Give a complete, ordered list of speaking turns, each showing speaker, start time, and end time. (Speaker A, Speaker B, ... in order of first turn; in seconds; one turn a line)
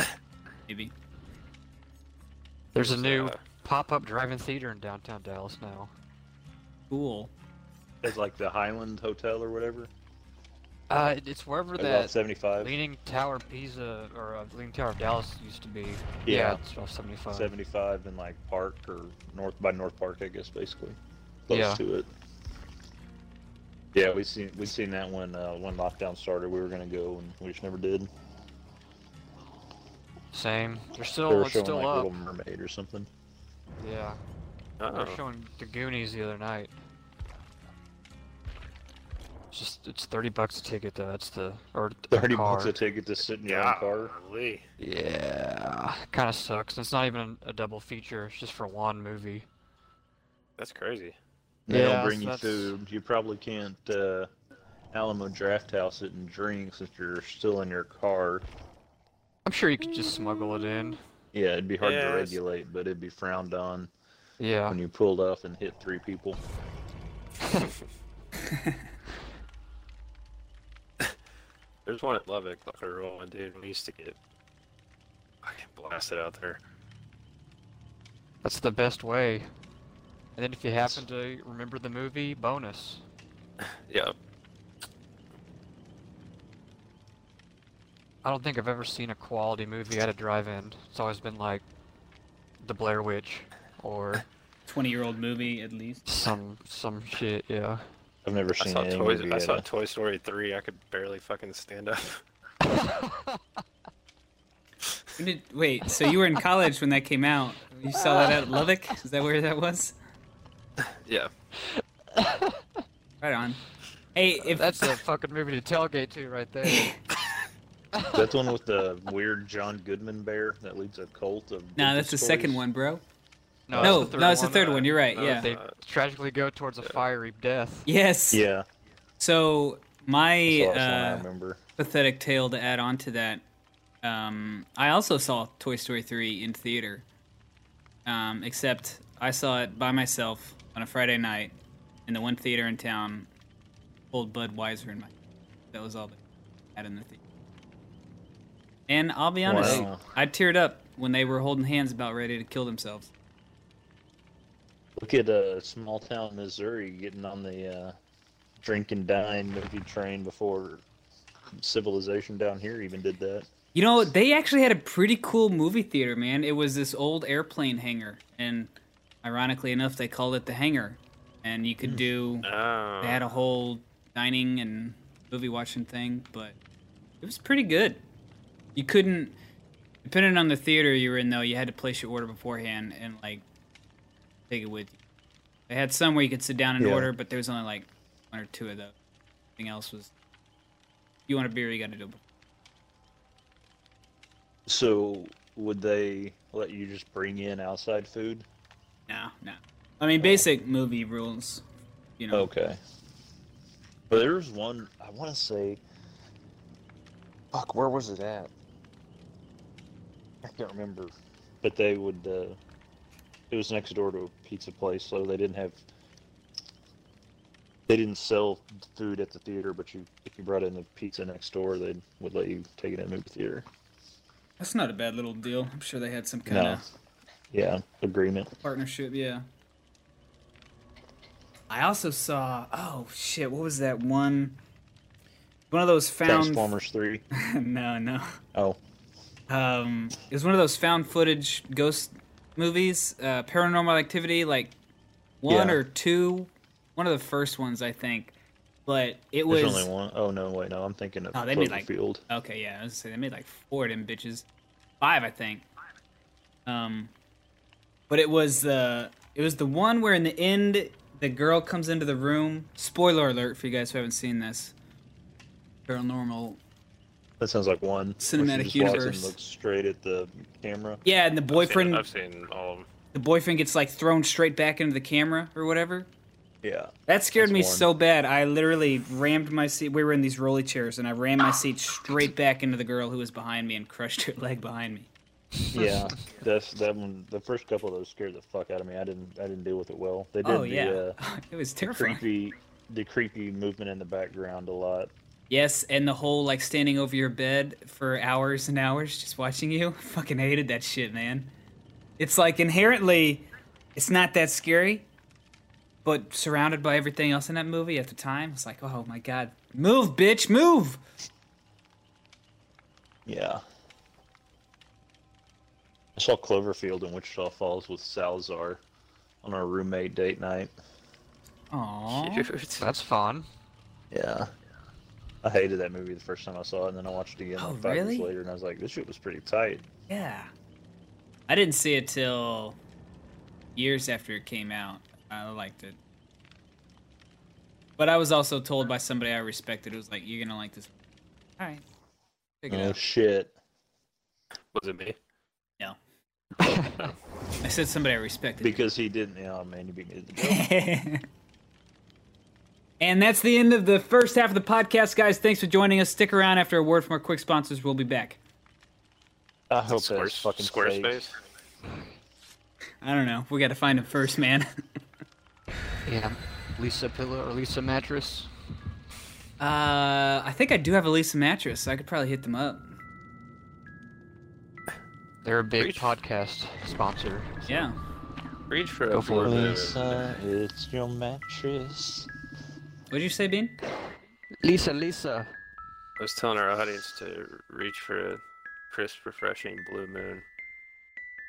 Speaker A: 0.7-0.9
Speaker B: 2.7-5.9
Speaker C: 2.8-3.4
Speaker A: 6.9-7.3
Speaker D: 8.0-9.9
Speaker B: 10.9-17.5
Speaker D: 11.8-12.8
Speaker D: 16.2-16.6
Speaker D: 17.3-21.0
Speaker D: 21.5-22.1
Speaker B: 21.5-21.8
Speaker D: 23.9-28.1
Speaker B: 30.3-32.1
Speaker D: 31.3-33.1
Speaker B: 33.8-34.2
Speaker C: 34.8-35.2
Speaker B: 34.9-36.7
Speaker B: 39.5-42.8
Speaker D: 42.1-44.1
Speaker C: 43.4-44.6
Speaker B: 44.8-49.5
Speaker C: 50.6-51.2
Speaker D: 51.7-54.3
Speaker B: 51.7-52.7
Speaker D: 54.9-58.5
Speaker B: 59.4-61.0
Speaker D: 61.3-63.9
Speaker C: 61.8-62.4
Speaker B: 64.4-64.8
Speaker D: 64.7-66.4
Speaker C: 71.9-74.2
Speaker C: 75.4-76.6
Speaker B: 78.4-79.5
Speaker B: 80.4-83.0
Speaker C: 83.6-84.1
Speaker B: 88.2-91.6
Speaker B: 92.6-94.2
Speaker A: 94.7-96.0
Speaker B: 96.1-97.8
Speaker D: 98.2-99.6
Speaker C: 98.6-102.2
Speaker B: 102.7-103.3
Speaker A: 105.2-110.0
Speaker B: 112.1-112.6
Speaker A: 113.2-113.6
Speaker A: 114.1-114.9
Speaker B: 114.4-117.0
Speaker A: 116.7-116.9
Speaker B: 118.0-118.3
Speaker D: 118.1-122.6
Speaker A: 121.8-123.0
Speaker B: 123.7-127.9
Speaker D: 123.8-124.3
Speaker A: 123.8-125.5
Speaker C: 124.3-125.8
Speaker A: 127.9-128.4
Speaker D: 128.3-128.6
Speaker A: 129.2-131.2
Speaker D: 130.5-131.6
Speaker A: 131.8-133.4
Speaker A: 134.0-137.1
Speaker A: 138.1-141.6
Speaker A: 142.1-143.3
Speaker A: 144.1-145.1
Speaker A: 145.7-146.2
Speaker A: 146.7-147.2
Speaker A: 148.9-153.1
Speaker D: 149.4-150.0
Speaker D: 155.0-157.9
Speaker D: 158.6-160.8
Speaker D: 161.6-163.5
Speaker A: 163.7-168.7
Speaker A: 169.2-172.5
Speaker C: 172.4-173.2
Speaker A: 173.0-176.6
Speaker A: 177.2-178.0
Speaker A: 178.8-179.4
Speaker A: 180.0-183.4
Speaker A: 184.5-185.0
Speaker A: 185.7-189.0
Speaker D: 186.8-187.1
Speaker A: 189.6-190.1
Speaker A: 191.3-192.2
Speaker D: 194.7-198.5
Speaker A: 199.1-201.6
Speaker A: 202.2-202.5
Speaker D: 202.3-202.8
Speaker D: 204.1-205.8
Speaker D: 207.5-208.5
Speaker D: 210.4-212.6
Speaker D: 213.5-215.8
Speaker D: 217.9-223.7
Speaker A: 224.6-226.8
Speaker D: 226.5-226.8
Speaker D: 227.5-228.5
Speaker A: 228.6-229.4
Speaker A: 231.7-234.6
Speaker A: 235.7-236.7
Speaker D: 236.2-237.2
Speaker A: 237.4-238.3
Speaker A: 239.5-244.8
Speaker A: 245.4-248.3
Speaker D: 245.5-245.8
Speaker A: 248.9-249.9
Speaker D: 249.5-252.2
Speaker A: 251.3-254.5
Speaker A: 255.0-255.6
Speaker A: 256.6-257.1
Speaker A: 258.1-264.8
Speaker A: 265.9-266.6
Speaker D: 267.4-271.0
Speaker A: 268.2-269.4
Speaker A: 271.0-272.0
Speaker C: 271.5-272.9
Speaker A: 273.1-276.1
Speaker D: 276.6-277.9
Speaker A: 277.1-285.1
Speaker D: 285.7-291.2
Speaker A: 290.4-292.2
Speaker D: 291.8-295.1
Speaker A: 295.5-301.5
Speaker A: 302.2-305.1
Speaker A: 306.1-311.0
Speaker D: 313.2-313.6
Speaker D: 316.1-318.8
Speaker D: 319.4-320.7
Speaker A: 321.7-322.5
Speaker C: 322.1-322.9
Speaker B: 322.8-323.5
Speaker D: 324.1-324.5
Speaker D: 325.4-329.9
Speaker A: 327.6-328.3
Speaker A: 330.1-330.5
Speaker A: 331.5-332.8
Speaker A: 333.8-336.0
Speaker A: 338.0-340.9
Speaker A: 342.6-343.0
Speaker D: 342.7-343.6
Speaker C: 344.7-345.2
Speaker B: 346.6-347.1
Speaker A: 347.6-348.9
Speaker D: 348.6-350.6
Speaker A: 350.4-351.2
Speaker A: 353.0-358.4
Speaker D: 359.7-361.2
Speaker C: 359.9-361.4
Speaker A: 363.0-364.7
Speaker B: 366.1-368.5
Speaker A: 369.6-372.9
Speaker B: 375.4-377.9
Speaker C: 375.8-376.1
Speaker A: 377.6-378.0
Speaker C: 378.7-380.2
Speaker B: 379.1-379.9
Speaker D: 379.3-382.3
Speaker A: 383.1-383.8
Speaker B: 384.6-385.5
Speaker C: 386.2-390.4